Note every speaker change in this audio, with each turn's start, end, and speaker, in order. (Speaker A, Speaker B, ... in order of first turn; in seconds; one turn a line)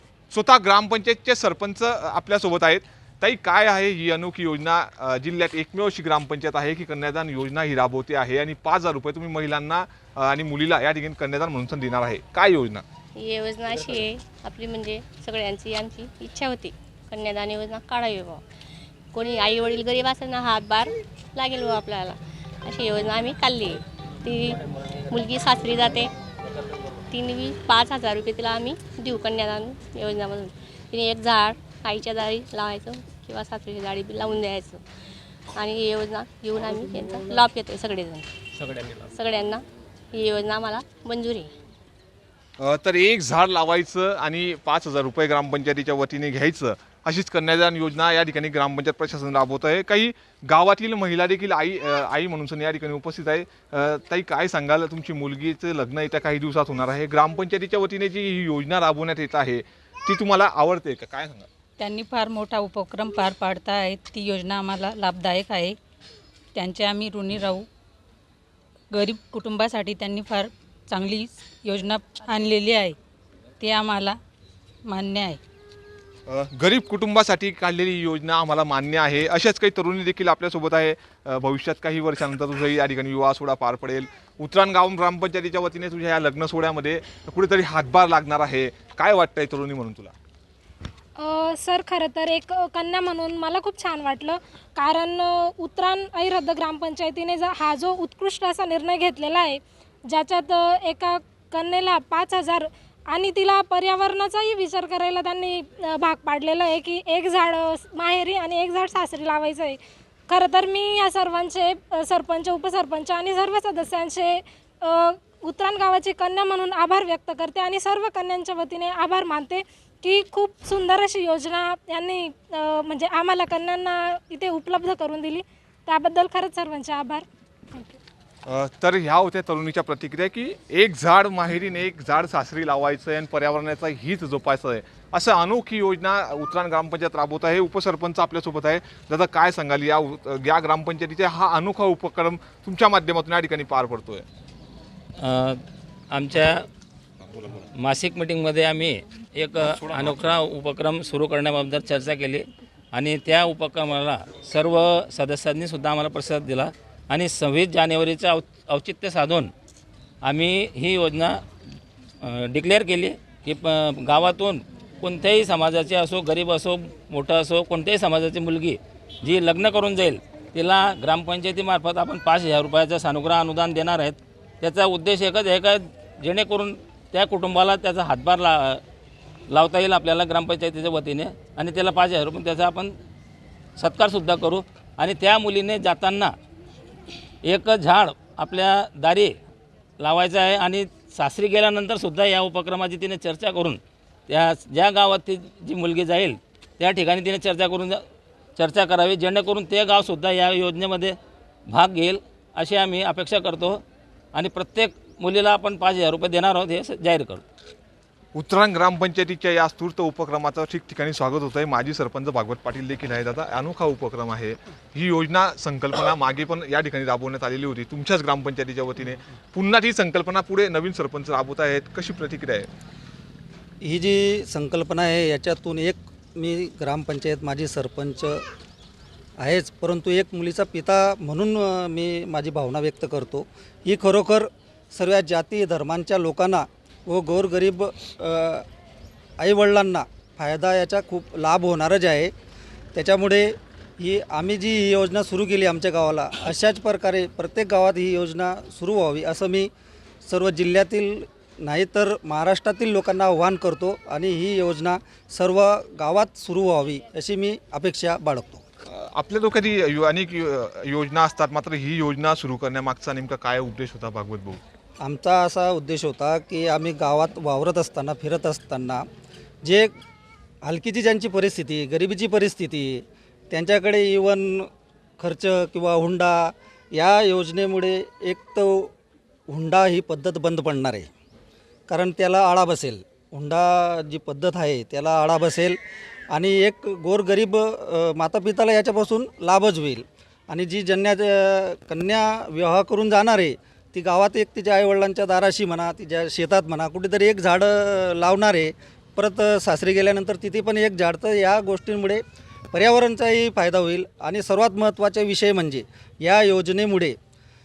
Speaker A: 0.3-12.8
Speaker B: 13.1-18.4
Speaker B: 19.1-26.1
Speaker B: 27.1-34.8
Speaker B: 35.5-41.5
Speaker A: 42.6-61.5
Speaker C: 61.8-65.8
Speaker C: 66.5-67.7
Speaker C: 68.9-73.0
Speaker C: 73.6-74.2
Speaker C: 74.8-75.4
Speaker A: 76.3-90.1
Speaker D: 91.2-109.8
Speaker D: 110.3-128.0
Speaker A: 128.5-144.2
Speaker E: 145.2-145.6
Speaker E: 146.1-146.7
Speaker E: 147.8-159.5
Speaker E: 160.2-161.4
Speaker E: 162.2-178.8
Speaker E: 179.5-182.9
Speaker E: 183.8-186.3
Speaker E: 187.4-189.4
Speaker E: 190.0-198.0
Speaker E: 198.6-201.2
Speaker E: 201.7-203.8
Speaker E: 204.3-207.4
Speaker A: 208.3-222.7
Speaker F: 223.8-228.4
Speaker F: 229.4-238.6
Speaker F: 239.4-242.3
Speaker F: 242.9-249.7
Speaker F: 250.2-258.6
Speaker A: 258.9-264.6
Speaker F: 265.0-269.0
Speaker F: 269.6-269.9
Speaker F: 270.6-274.7
Speaker F: 275.2-278.9
Speaker F: 279.5-281.1
Speaker F: 281.9-285.8
Speaker F: 286.3-307.1